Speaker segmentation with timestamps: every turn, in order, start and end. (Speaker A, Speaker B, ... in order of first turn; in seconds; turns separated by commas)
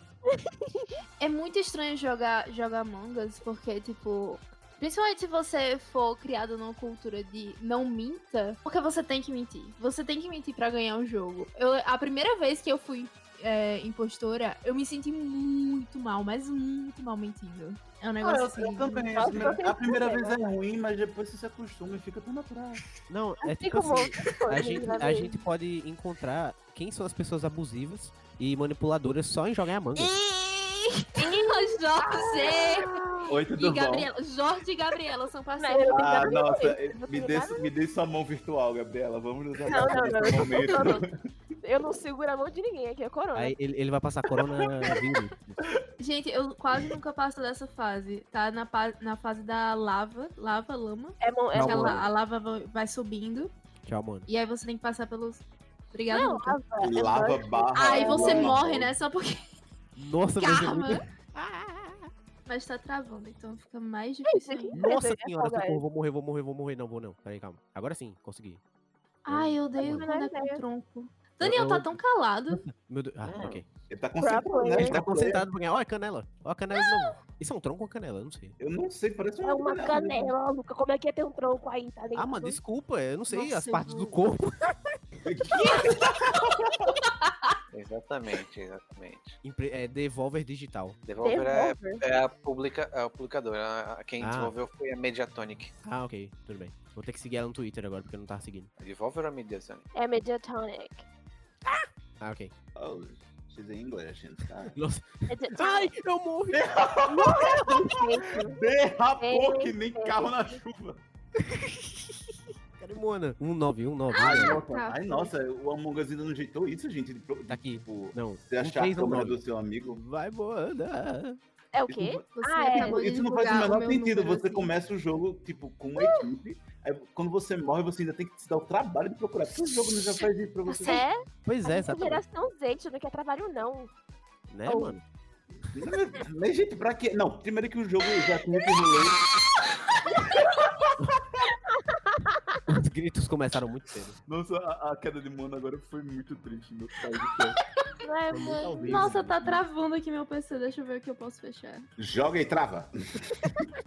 Speaker A: 0.2-0.9, Speaker B: 1.2-19.6, Speaker C: 18.2-22.8, Speaker A: 19.1-20.4, Speaker D: 23.1-30.1, Speaker A: 23.5-25.4, Speaker B: 30.0-36.4, Speaker A: 31.2-33.3, Speaker C: 33.3-34.1, Speaker A: 35.6-37.7, Speaker C: 35.9-41.1, Speaker A: 39.6-41.1, Speaker B: 40.3-41.0, Speaker A: 41.6-43.5, Speaker D: 43.3-45.6, Speaker B: 46.0-53.5, Speaker A: 51.2-52.0, Speaker D: 51.5-52.0, Speaker D: 53.9-54.3, Speaker B: 54.3-56.6, Speaker A: 56.1-58.6, Speaker C: 56.8-59.0, Speaker B: 57.8-59.4, Speaker D: 60.0-62.1, Speaker B: 60.4-61.0, Speaker B: 62.5-64.8, Speaker A: 64.2-65.8, Speaker D: 64.7-68.6, Speaker B: 69.2-72.6, Speaker D: 69.3-70.1, Speaker A: 69.8-70.6, Speaker D: 71.4-72.0, Speaker D: 72.5-73.7, Speaker E: 73.2-73.6, Speaker C: 73.9-75.5, Speaker A: 74.2-75.0, Speaker D: 74.8-78.6, Speaker C: 78.6-80.3, Speaker A: 79.4-82.6, Speaker D: 82.1-84.7, Speaker B: 83.3-84.1, Speaker C: 85.2-87.0, Speaker B: 85.6-86.0, Speaker B: 87.0-87.5, Speaker E: 87.7-89.4, Speaker D: 89.4-91.0, Speaker E: 91.1-95.7, Speaker A: 91.2-92.0, Speaker D: 94.2-94.5, Speaker D: 95.8-98.7, Speaker E: 98.8-99.9, Speaker A: 99.9-101.0, Speaker D: 102.2-102.5, Speaker C: 102.8-104.8, Speaker D: 104.7-106.8, Speaker A: 105.3-105.9, Speaker C: 106.5-111.0, Speaker A: 107.1-108.7, Speaker A: 109.2-110.6, Speaker D: 111.5-112.2, Speaker D: 112.8-114.6, Speaker B: 114.1-115.3, Speaker C: 114.2-120.0, Speaker D: 117.5-119.4, Speaker D: 120.0-121.4, Speaker A: 121.7-123.0, Speaker C: 121.9-131.1, Speaker B: 122.3-124.7, Speaker A: 126.0-126.3, Speaker B: 130.7-131.1, Speaker A: 130.8-133.9, Speaker D: 131.4-132.2, Speaker D: 134.5-135.0, Speaker A: 134.7-134.9, Speaker C: 135.7-139.2, Speaker B: 140.1-140.7, Speaker A: 141.7-142.6, Speaker D: 142.7-144.2, Speaker C: 144.2-147.6, Speaker B: 147.8-151.9, Speaker A: 148.0-149.1, Speaker D: 148.3-149.6, Speaker C: 148.9-149.1, Speaker C: 152.0-152.9